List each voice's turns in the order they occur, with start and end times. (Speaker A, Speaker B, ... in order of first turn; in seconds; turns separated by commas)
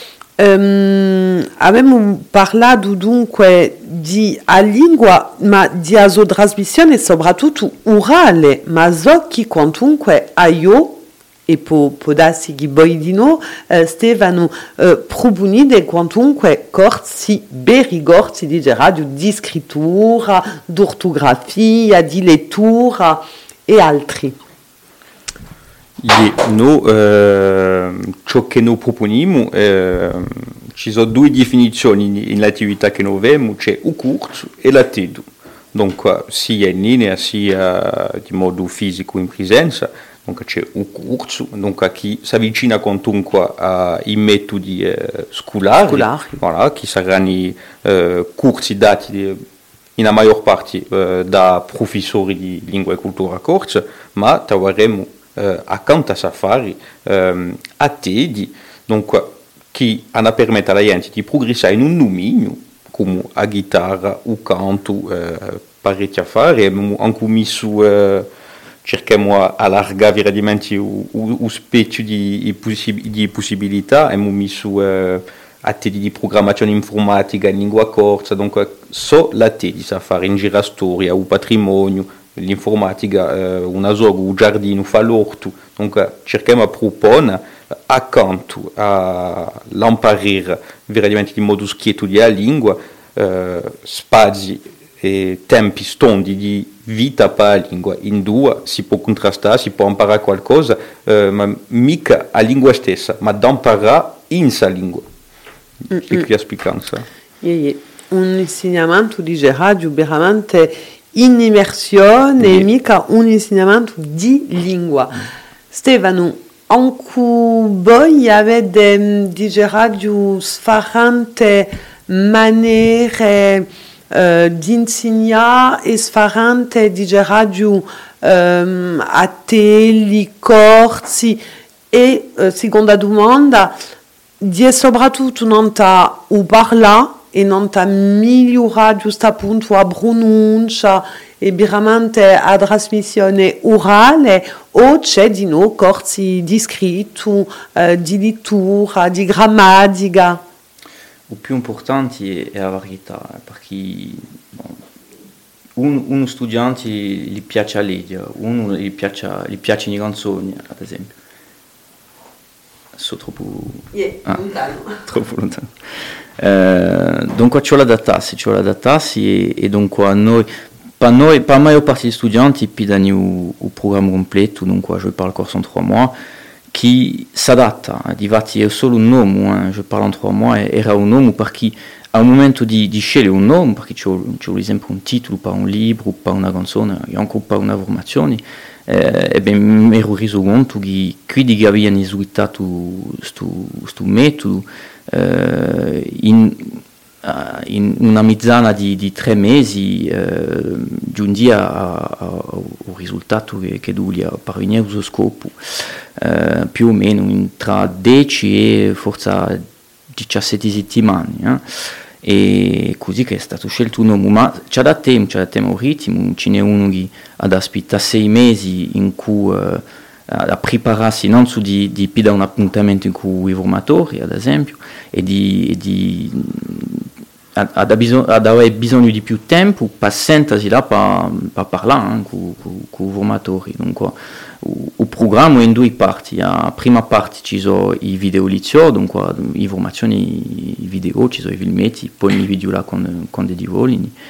Speaker A: 0.4-24.3, Speaker B: 26.0-49.4, Speaker A: 45.9-46.4, Speaker B: 50.0-68.2, Speaker B: 68.8-105.0, Speaker A: 105.9-106.2, Speaker B: 106.0-107.0, Speaker A: 107.4-115.1, Speaker A: 115.7-131.4, Speaker A: 131.9-133.7, Speaker A: 134.4-150.4, Speaker C: 151.3-154.8, Speaker C: 155.8-161.1, Speaker C: 162.9-164.4, Speaker A: 163.9-165.0, Speaker C: 165.0-165.7, Speaker C: 166.4-170.5, Speaker C: 171.0-176.2, Speaker C: 176.7-209.6, Speaker C: 210.1-211.6, Speaker C: 212.2-244.1